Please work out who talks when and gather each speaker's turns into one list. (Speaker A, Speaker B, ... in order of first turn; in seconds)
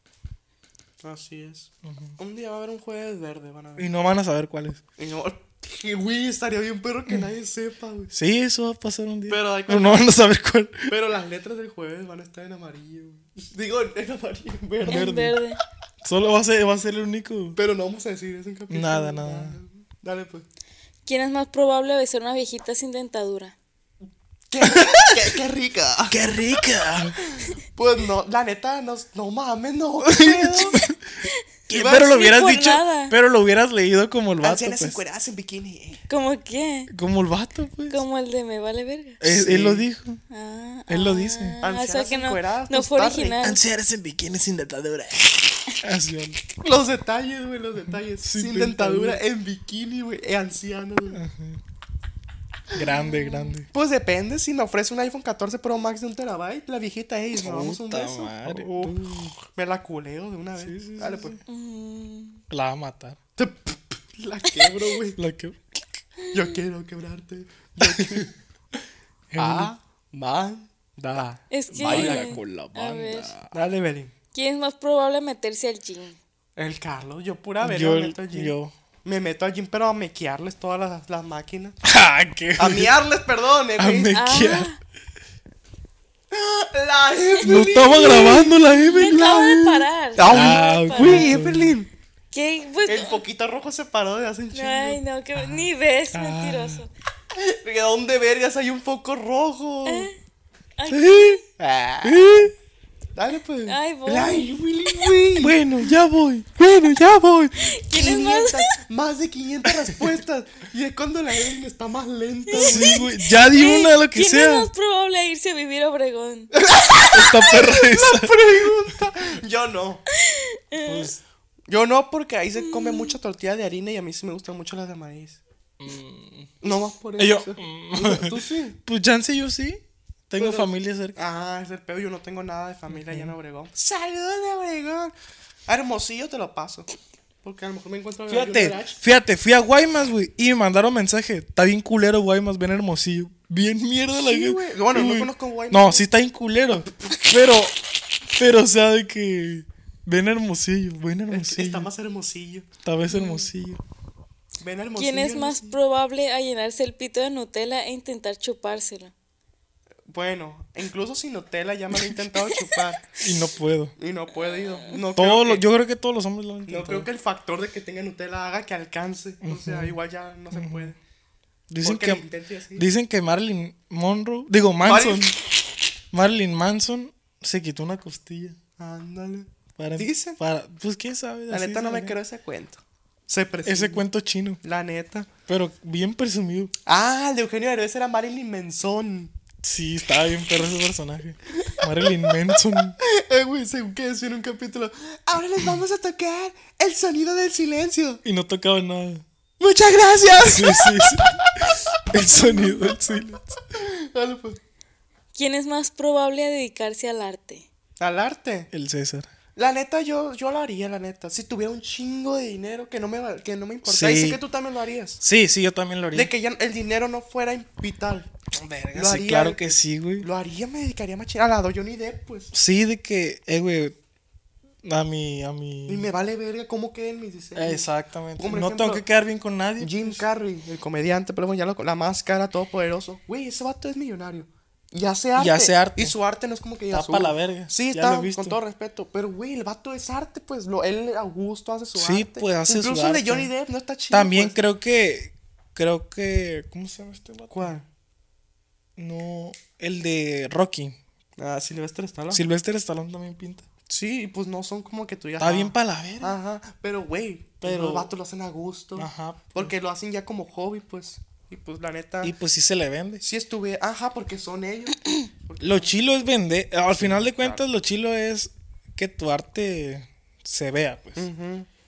Speaker A: 1.0-3.9, 5.0-8.1, 9.3-10.1, 10.9-15.2, 17.6-20.4, 24.5-26.2, 27.7-30.8, 31.7-32.2, 34.4-36.0, 39.2-39.9, 41.6-43.4, 46.6-51.2, 53.7-59.0, 59.5-61.4, 63.4-65.2, 66.3-68.3, 69.4-72.4, 73.5-74.1, 76.6-78.5, 79.0-81.8, 82.6-84.2, 86.3-91.9, 92.8-95.0, 97.3-100.1, 101.6-102.5, 103.2-105.6, 106.6-113.1, 116.5-120.0, 121.7-125.4, 126.6-128.8, 130.4-135.1, 135.7-136.9, 137.4-139.0, 144.1-146.1, 151.3-152.7, 154.6-155.8, 160.1-163.0, 164.0-165.7, 166.7-171.0, 171.8-172.9, 174.8-175.4, 178.8-180.4, 181.5-184.0, 184.6-185.3, 186.9-189.3, 193.0-198.2, 199.6-204.6, 208.0-208.7, 209.6-215.2, 216.1-218.3, 218.9-222.5, 225.9-227.9, 228.4-229.0, 229.8-244.6, 247.5-247.8, 251.4-252.4, 253.9-262.4, 263.2-265.9, 266.9-267.6, 271.2-271.7
Speaker B: 1.8-2.1, 3.8-4.8, 8.1-10.9, 14.8-15.4, 16.0-17.6, 18.7-19.6, 24.6-25.3, 26.1-27.2, 30.1-31.0, 31.7-35.0, 36.9-38.0, 39.2-40.2, 40.9-41.6, 43.4-46.4, 47.9-49.2, 51.1-51.6, 52.7-53.7, 57.4-59.4, 60.6-61.4, 62.5-63.2, 65.2-65.8, 67.8-68.3, 69.3-69.7, 71.7-73.5, 77.6-78.7, 81.8-82.9, 83.8-84.7, 87.4-89.5, 90.3-91.7, 96.1-96.8, 100.9-101.4, 102.0-102.5, 105.4-106.5, 112.6-114.7, 117.1-118.7, 120.8-121.2, 125.8-126.6, 127.2-131.2, 132.9-133.3, 138.3-147.8, 148.3-151.9, 152.8-153.8, 163.2-163.9, 165.2-167.1, 169.4-170.0, 170.5-170.9, 171.7-172.2, 172.8-175.4, 176.1-178.6, 179.8-182.2, 183.7-184.6, 185.5-186.7, 189.6-193.0, 198.2-199.2, 200.3-203.5, 208.7-209.3, 213.8-214.4, 215.2-216.3, 218.5-220.3, 222.5-224.0, 224.8-226.1, 227.6-230.2, 235.4-236.2, 236.9-238.6, 242.0-243.5, 244.1-247.7, 249.0-251.0, 252.3-253.7, 255.4-256.4, 257.6-258.1, 259.0-259.7, 262.2-263.2, 265.6-271.3
Speaker C: 14.9-15.6, 21.1-23.6, 31.8-33.1, 36.1-36.9, 37.9-39.2, 40.3-43.6, 52.9-53.6, 61.5-62.4, 71.5-73.3, 74.3-76.2, 84.1-84.8, 87.4-91.4, 92.3-93.2, 94.5-96.9, 100.8-101.4, 103.7-105.1, 107.6-108.7, 112.5-116.5, 120.2-121.1, 122.6-123.2, 153.1-153.5, 155.0-159.1, 205.3-207.7